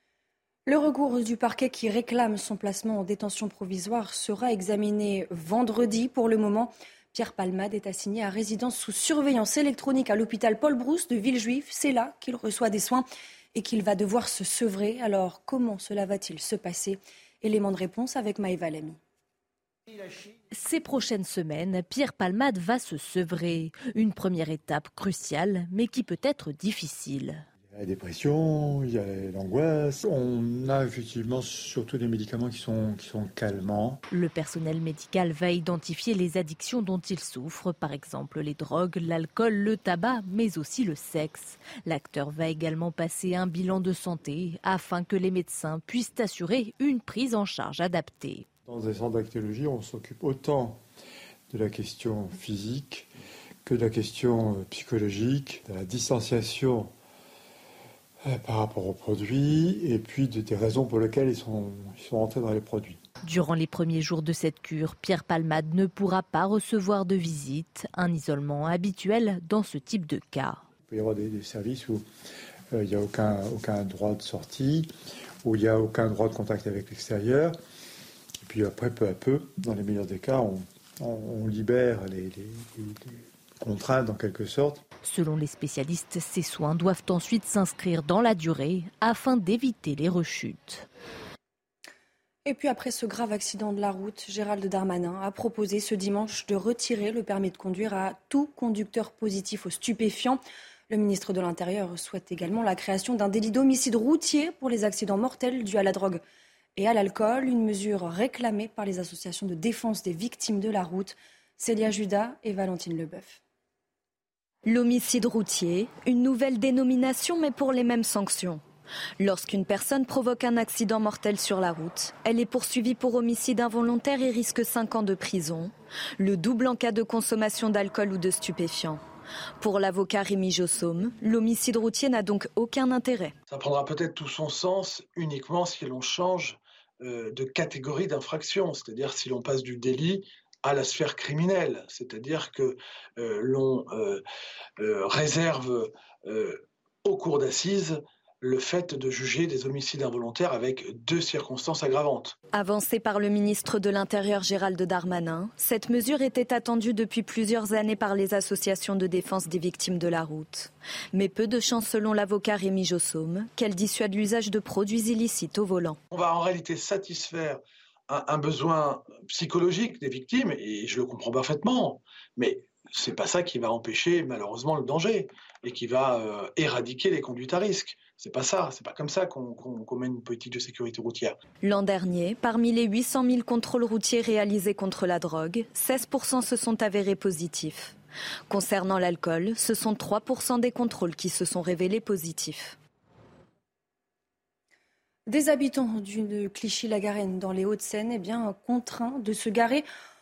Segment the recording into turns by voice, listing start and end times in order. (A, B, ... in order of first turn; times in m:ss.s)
0:00.7-0:19.0 A
0:20.5-0:27.4 B
0:27.7-0:34.0 C
0:34.1-0:48.4 B
0:48.6-0:50.8 C
0:51.5-0:53.1 C
0:53.6-0:56.9 C
0:58.3-1:03.0 C
1:03.2-1:10.6 B
1:10.9-1:12.0 C
1:12.7-1:14.9 C
1:15.4-1:17.6 C
1:18.4-1:24.8 C
1:25.0-1:30.8 B
1:32.4-1:46.2 A
1:46.8-1:53.4 A
1:54.6-1:58.6 D
1:59.2-2:09.0 D
2:09.6-2:13.3 D
2:13.5-2:24.2 E
2:24.8-2:32.3 E
2:32.5-2:46.0 D
2:46.1-3:01.4 E
3:01.6-3:07.9 D
3:08.5-3:12.7 D
3:15.3-3:19.8 A